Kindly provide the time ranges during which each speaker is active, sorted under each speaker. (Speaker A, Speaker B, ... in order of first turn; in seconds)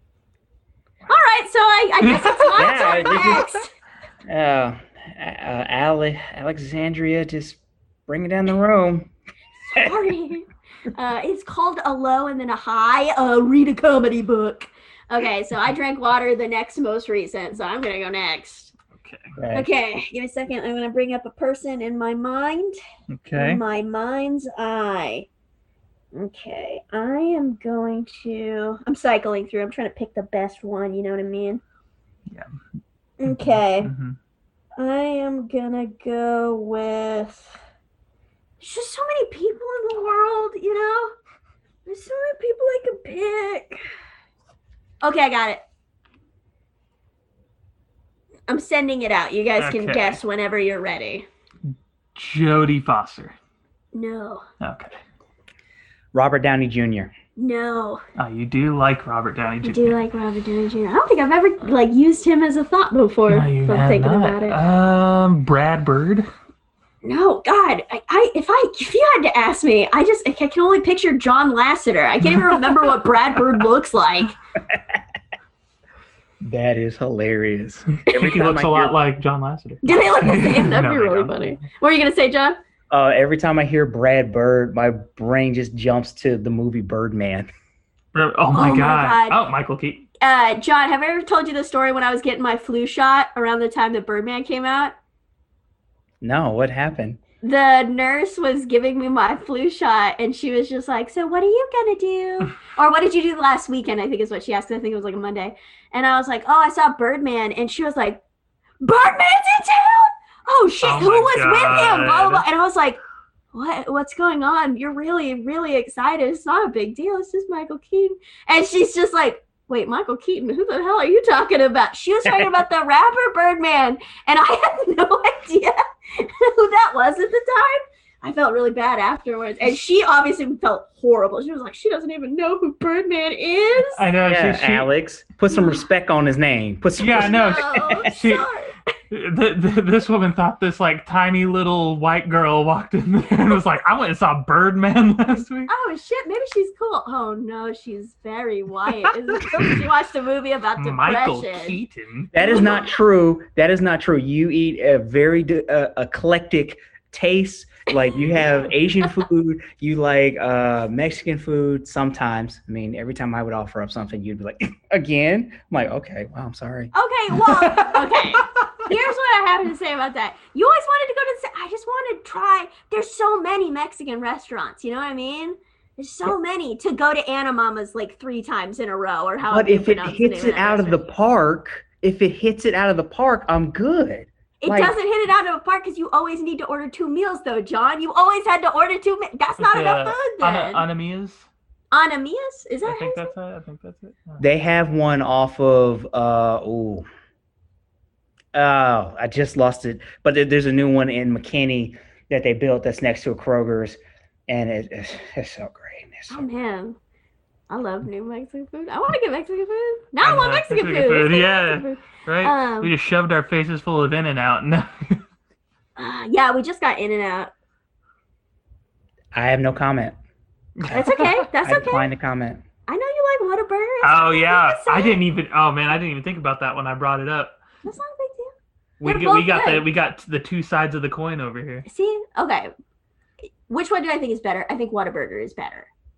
Speaker A: 1.1-3.7, 9.7-18.7, 19.5-22.8, 23.4-25.3, 26.1-31.6, 33.2-33.9, 34.8-37.6, 38.6-41.1, 41.9-43.8, 45.0-45.6, 48.5-51.3, 53.9-54.4, 57.4-58.0, 59.6-64.6, 67.0-74.3, 79.8-82.6, 88.5-89.4, 90.2-94.9, 97.4-108.2, 108.8-113.0, 113.5-134.0, 137.1-138.8, 145.7-151.8, 152.4-152.9, 166.9-181.1, 184.6-190.8, 191.9-193.3, 206.3-207.0, 207.7-212.9, 216.0-217.5, 220.9-222.1, 222.9-225.2, 227.8-228.5, 229.0-229.9, 231.9-232.7, 233.7-235.9
Speaker B: 2.0-2.7, 18.9-19.4, 23.1-23.6, 33.2-34.2, 49.6-50.2, 52.1-53.4, 54.6-55.0, 58.2-60.0, 63.3-66.3, 78.1-81.5, 88.1-90.1, 110.8-112.5, 134.0-134.9, 137.0-138.5, 139.1-145.7, 149.4-149.6, 150.8-152.3, 167.6-168.5, 189.6-191.5, 192.8-194.4, 210.2-215.2, 220.8-221.5, 224.0-227.6, 229.0-231.9
Speaker C: 2.5-3.5, 4.3-9.1, 19.4-19.7, 56.1-57.1, 76.4-79.0, 82.9-87.5, 96.2-97.2, 134.3-138.1, 152.3-166.9, 179.5-184.9, 194.4-197.1, 198.5-206.5, 219.3-220.2, 221.6-222.6